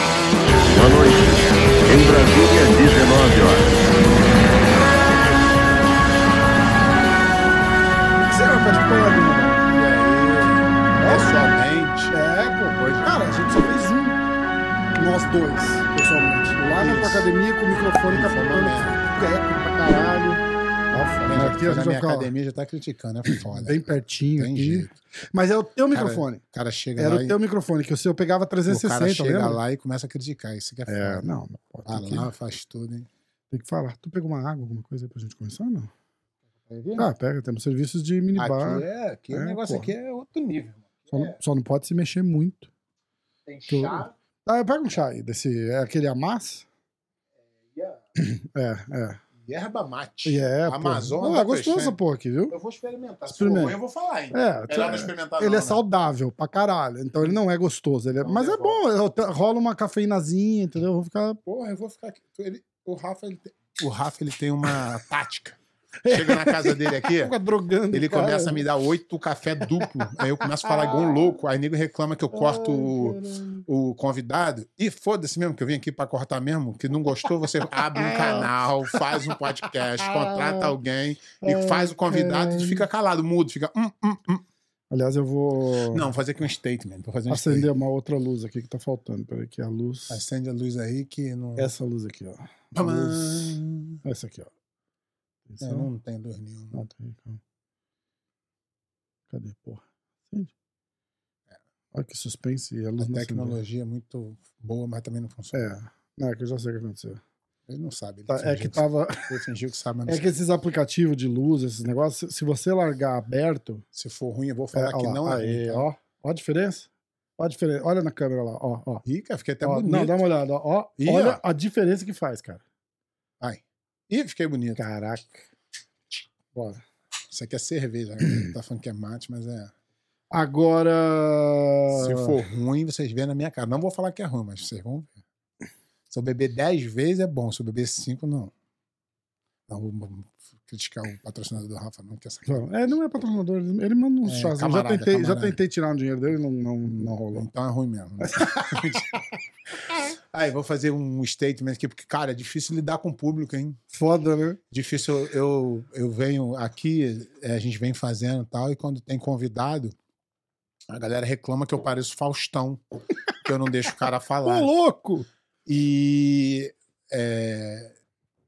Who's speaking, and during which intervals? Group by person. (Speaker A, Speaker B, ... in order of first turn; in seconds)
Speaker A: 0.7-3.8
Speaker B: 8.2-9.7, 10.9-11.3, 12.1-14.2, 14.9-22.3, 23.3-26.4, 26.9-29.6, 30.9-32.3, 33.5-35.9, 37.0-39.9, 41.1-42.7, 43.7-46.6, 48.1-49.2, 50.2-52.5, 53.3-53.8, 54.3-61.4, 66.0-68.6, 70.4-71.2, 72.3-73.6, 77.9-79.4, 79.9-80.7, 81.4-82.8, 84.9-86.1, 87.3-90.2, 91.6-94.5, 95.5-95.9, 96.7-97.4, 99.3-100.5, 101.9-103.6, 105.5-107.2, 108.3-109.3, 110.0-113.8, 114.7-119.0, 119.6-122.6, 124.8-125.5, 126.5-126.8, 130.3-132.4, 142.5-147.5, 148.2-149.1, 153.9-154.6, 164.4-165.3
Speaker C: 9.6-12.2, 12.7-13.2, 16.8-17.3, 18.1-19.0, 21.3-24.9, 25.9-27.3, 28.7-31.3, 31.9-33.1, 36.7-37.1, 38.4-41.4, 43.5-44.1, 47.7-48.0, 49.4-52.0, 52.5-55.8, 58.2-58.8, 61.5-65.6, 66.1-67.3, 67.9-84.4, 85.9-87.7, 90.1-91.7, 92.7-94.0, 95.6-96.8, 103.0-105.7, 107.7-110.2, 113.9-115.9, 119.0-120.2, 121.0-121.4, 123.4-124.8, 127.3-129.7, 131.9-135.1, 136.1-138.5, 139.7-142.6, 144.2-145.6, 146.9-149.1, 149.8-153.8, 154.7-159.9, 160.9-164.7, 165.7-167.9